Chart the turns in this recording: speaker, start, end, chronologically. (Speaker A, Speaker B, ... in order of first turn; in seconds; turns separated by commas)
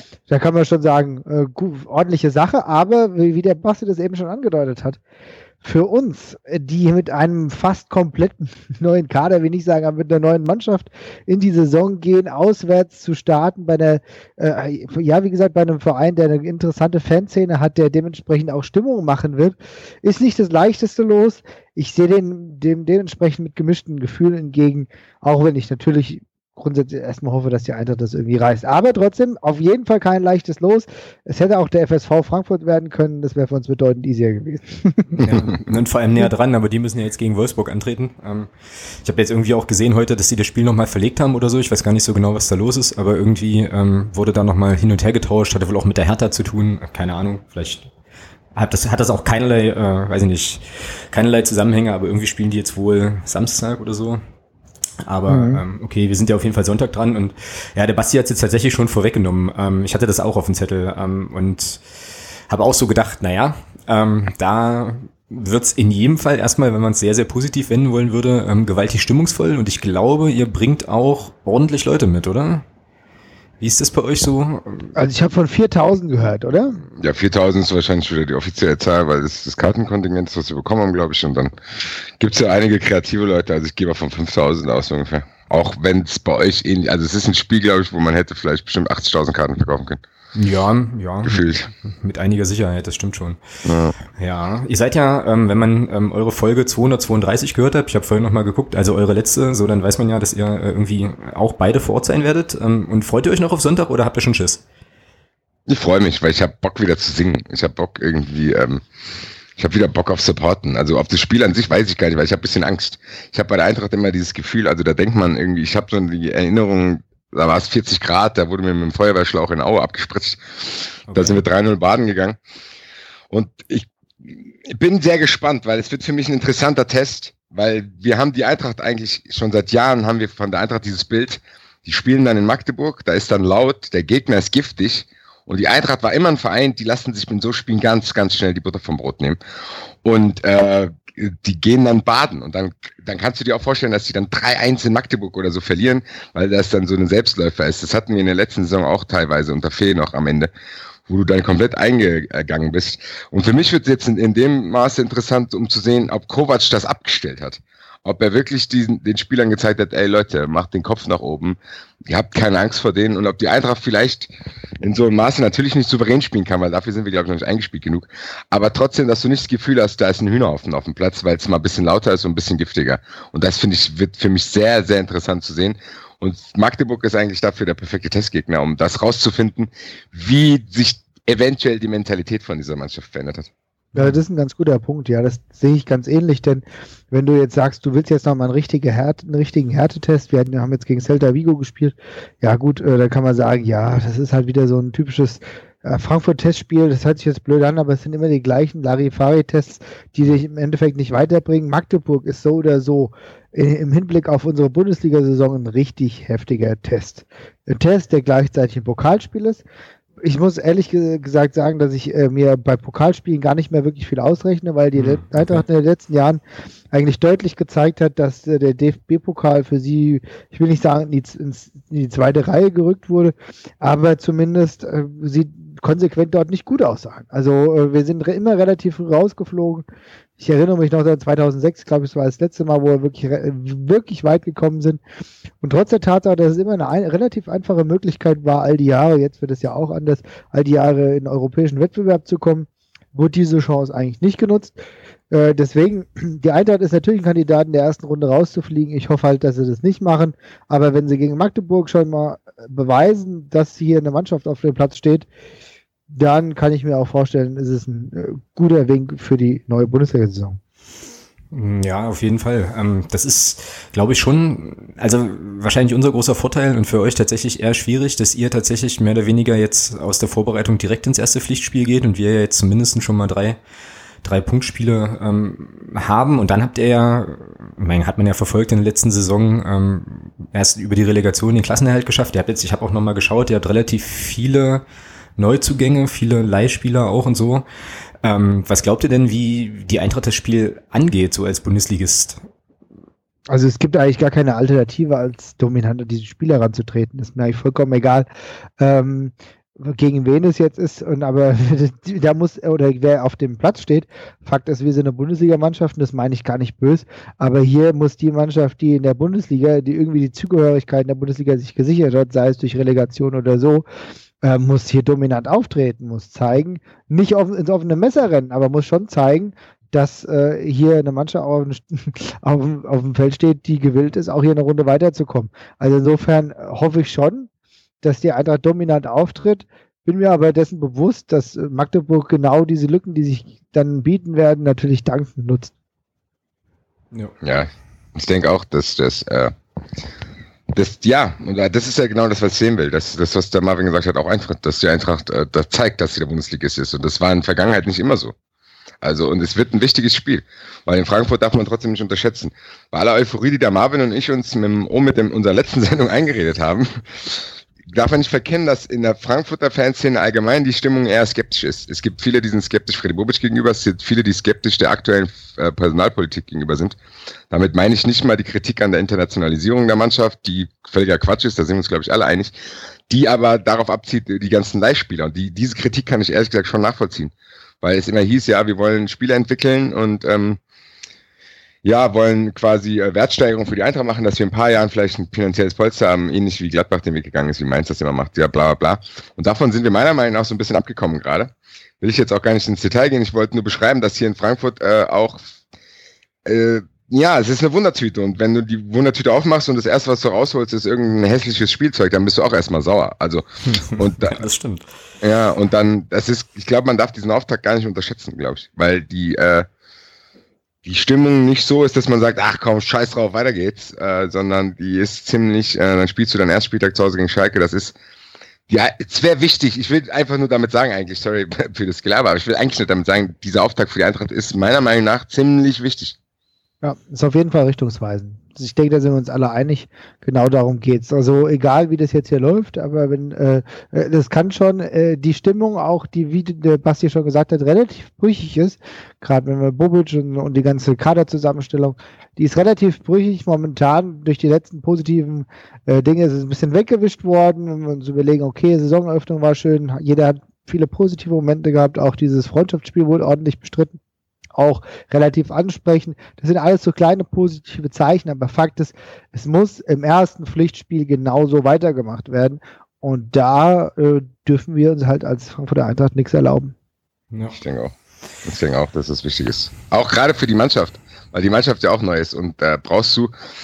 Speaker A: 0.3-5.0, Speaker A: 5.6-35.2, Speaker B: 35.2-38.5, Speaker B: 39.0-47.9, Speaker B: 48.5-54.2, Speaker B: 55.0-61.8, Speaker A: 55.3-55.6, Speaker B: 62.5-72.6, Speaker B: 73.6-74.9, Speaker A: 75.0-76.8, Speaker C: 77.0-81.5, Speaker C: 82.2-90.0, Speaker B: 90.3-93.4, Speaker C: 91.2-91.7, Speaker C: 93.7-94.0, Speaker B: 94.2-104.6, Speaker C: 105.7-108.8, Speaker C: 109.6-120.4, Speaker B: 121.1-121.5, Speaker C: 121.1-122.4, Speaker C: 123.3-139.4, Speaker C: 140.0-150.5, Speaker C: 151.1-164.3, Speaker C: 164.8-183.5, Speaker A: 183.9-209.6, Speaker B: 184.0-184.2, Speaker A: 210.2-216.4, Speaker B: 214.9-215.6, Speaker A: 216.9-229.9, Speaker A: 230.4-235.0, Speaker A: 235.6-244.8, Speaker A: 245.3-255.3, Speaker A: 256.1-260.6, Speaker B: 261.5-273.6, Speaker B: 274.2-284.8, Speaker B: 285.4-287.6, Speaker B: 288.2-292.4, Speaker A: 293.5-298.3, Speaker A: 298.8-313.9, Speaker A: 314.4-327.5, Speaker A: 328.0-335.7, Speaker C: 337.4-339.5, Speaker C: 340.7-348.3, Speaker C: 349.0-357.0, Speaker C: 357.9-367.0, Speaker C: 367.5-372.6, Speaker C: 373.1-380.6, Speaker C: 381.8-395.5, Speaker C: 396.4-404.4, Speaker B: 403.7-404.9, Speaker C: 405.2-409.7, Speaker C: 410.8-417.9, Speaker C: 418.7-426.2, Speaker A: 426.8-454.0, Speaker A: 454.6-466.7, Speaker C: 467.5-467.9, Speaker C: 468.4-473.3